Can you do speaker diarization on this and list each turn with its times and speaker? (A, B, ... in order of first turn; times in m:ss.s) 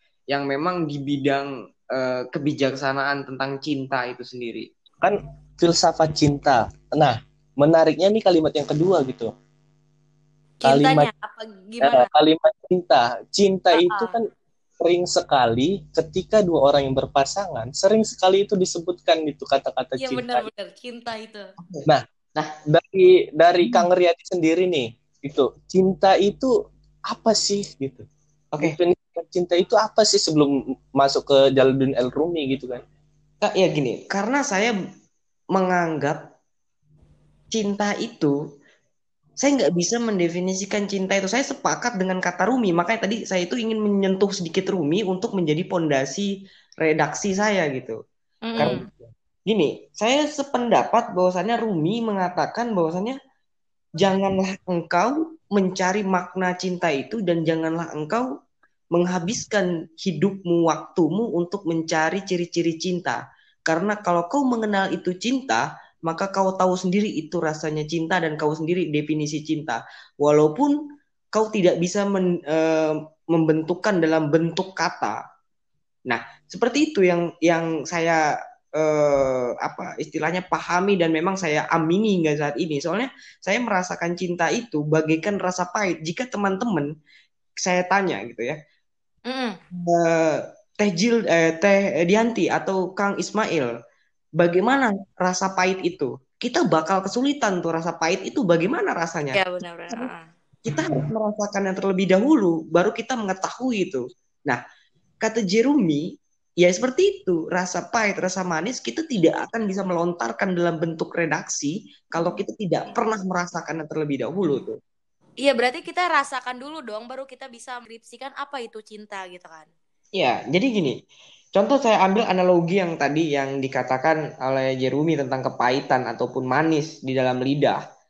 0:00.3-0:04.7 A
0:05.0-0:09.3 B
0:10.6-0:12.1 C
0:10.6-0:11.1 B
0:11.8-0:14.3 B
0:13.7-0:14.2 C
0:14.8-0:20.5 B
0:20.0-0:21.5 C
0:21.6-0:21.9 A
0:22.6-0:26.5 B
0:27.1-0:28.1 B
0:28.6-0:32.8 B
0:33.4-0:34.8 A
0:35.5-0:36.2 A
0:37.5-0:38.4 A
0:39.4-0:46.3 A
0:46.8-0:48.0 A
0:48.5-0:48.8 C
0:48.6-0:48.8 A
0:48.6-0:48.9 B
0:49.5-0:53.2 A
0:54.0-0:58.3 A
0:58.9-1:10.8 A
1:11.3-1:15.2 A
1:16.1-1:26.9 A
1:27.6-1:28.6 A
1:29.3-1:29.6 C
1:29.7-1:33.7 A
1:34.4-1:39.4 A
1:39.3-1:40.2 C
1:40.7-1:44.6 A
1:45.2-1:46.0 A
1:46.6-1:54.8 A
1:55.4-1:59.7 C
2:00.2-2:01.0 A
2:01.6-2:07.8 A